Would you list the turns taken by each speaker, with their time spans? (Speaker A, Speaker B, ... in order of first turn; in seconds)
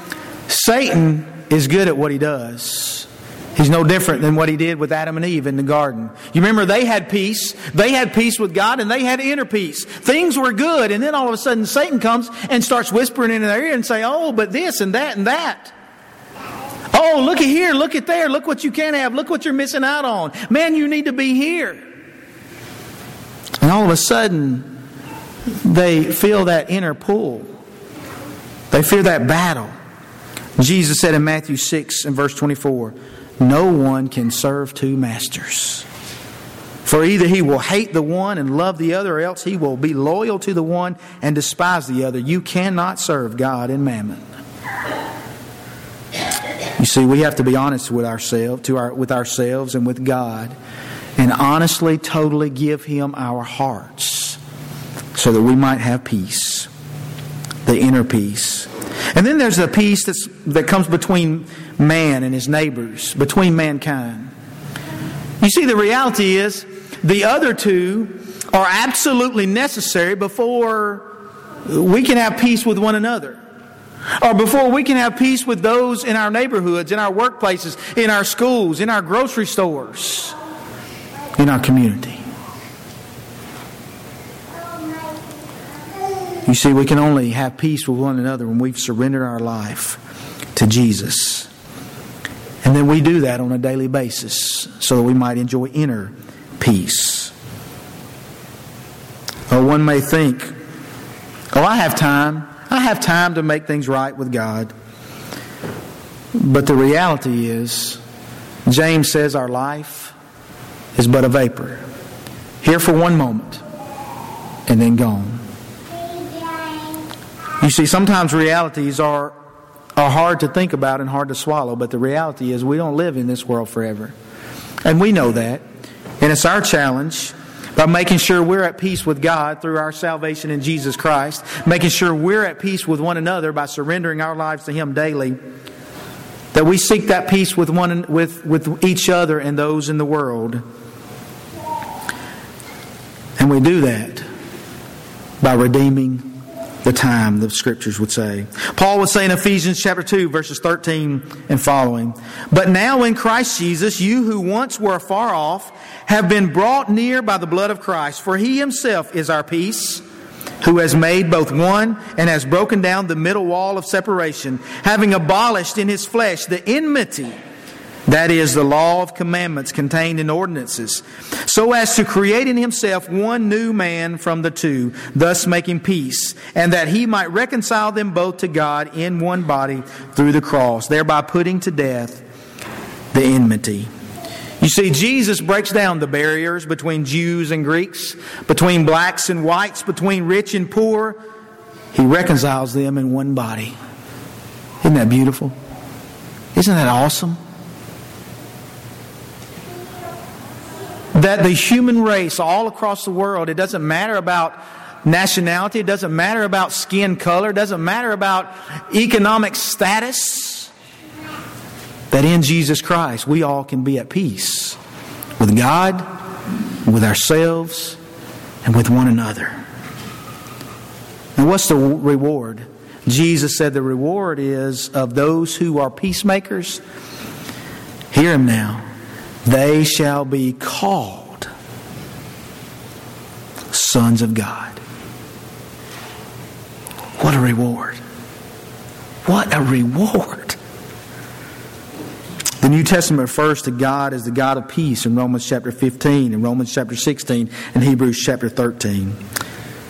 Speaker A: 0.5-15.7, 16.9-21.8, 23.6-24.7, 25.6-27.5, 28.7-29.7, 30.6-35.9, 36.9-44.3, 46.8-50.5, 51.2-54.4, 55.1-56.7, 57.7-64.3, 65.4-71.1, 71.7-73.4, 74.2-80.4, 81.4-82.2, 86.5-90.0, 90.5-91.5, 92.6-97.3, 99.5-100.5, 101.5-104.7, 106.3-108.0, 108.7-110.2, 111.0-111.8, 112.6-113.6, 114.7-115.4, 117.6-119.3, 120.0-124.2, 124.8-125.6, 126.2-135.4, 136.5-140.6, 143.4-144.3, 145.4-160.0, 160.6-167.3, 168.1-182.2, 183.1-183.9, 184.6-191.2, 191.9-193.8, 194.8-195.6, 196.6-197.4, 201.1-210.7, 212.1-214.8, 215.4-216.1, 216.8-218.0, 218.6-219.6, 221.4-226.8, 228.1-228.9, 229.5-231.5, 233.7-234.8, 237.2-238.0, 239.3-240.6, 242.6-249.2